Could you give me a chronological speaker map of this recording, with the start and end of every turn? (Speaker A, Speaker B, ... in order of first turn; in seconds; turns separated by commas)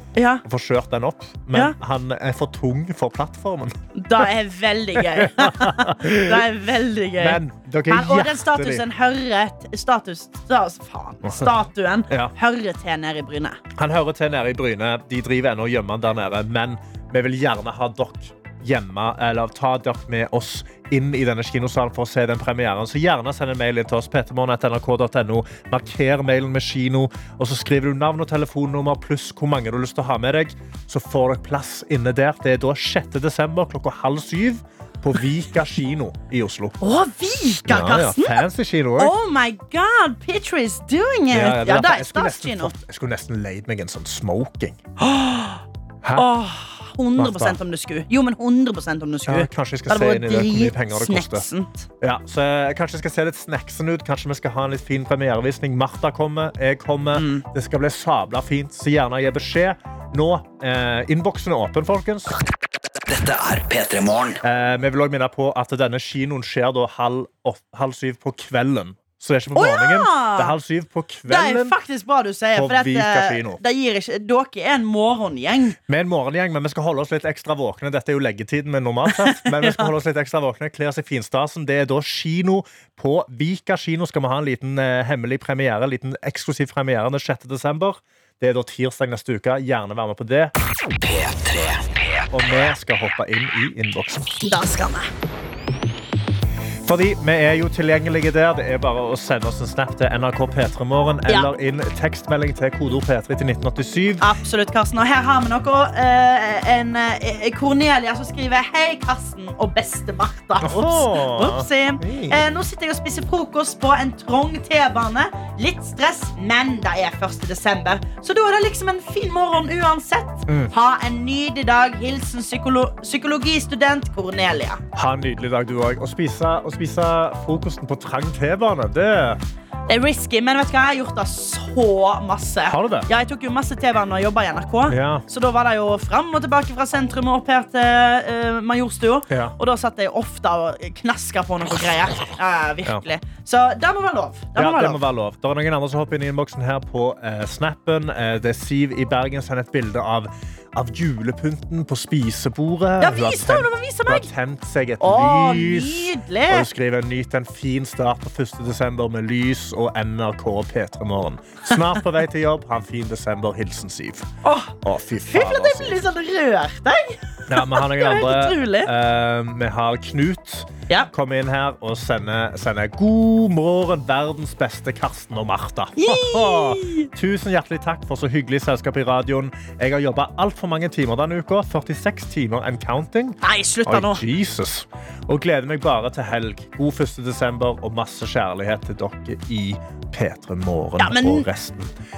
Speaker A: 0.1-0.4, Speaker B: 0.4-4.3, Speaker A: 3.9-13.6, Speaker B: 5.0-6.5, Speaker B: 7.2-8.8, Speaker B: 11.2-11.6, Speaker B: 13.7-36.8, Speaker A: 36.8-38.4, Speaker B: 37.7-39.1, Speaker A: 39.0-42.7, Speaker B: 41.3-44.8, Speaker A: 45.0-45.6, Speaker B: 46.0-46.3, Speaker A: 46.1-51.9, Speaker B: 47.1-47.6, Speaker B: 49.3-51.5, Speaker B: 52.0-62.4, Speaker A: 57.1-57.4, Speaker C: 63.0-64.4, Speaker B: 64.4-71.8, Speaker A: 69.5-70.5, Speaker A: 71.2-75.8, Speaker B: 72.5-73.6, Speaker B: 75.9-90.5, Speaker A: 79.1-79.9, Speaker C: 91.0-92.3, Speaker B: 92.3-94.5, Speaker A: 94.4-95.1, Speaker B: 96.8-104.3, Speaker A: 104.2-124.8, Speaker B: 110.6-112.4, Speaker B: 124.9-129.4, Speaker A: 129.9-145.0, Speaker B: 132.7-133.1, Speaker B: 134.9-135.2, Speaker B: 139.3-139.5, Speaker B: 144.6-166.0, Speaker A: 153.0-154.3, Speaker A: 155.0-156.7, Speaker A: 164.4-164.8, Speaker A: 165.3-168.9, Speaker B: 167.5-191.9, Speaker A: 176.0-177.1, Speaker A: 183.4-184.2, Speaker A: 191.0-191.5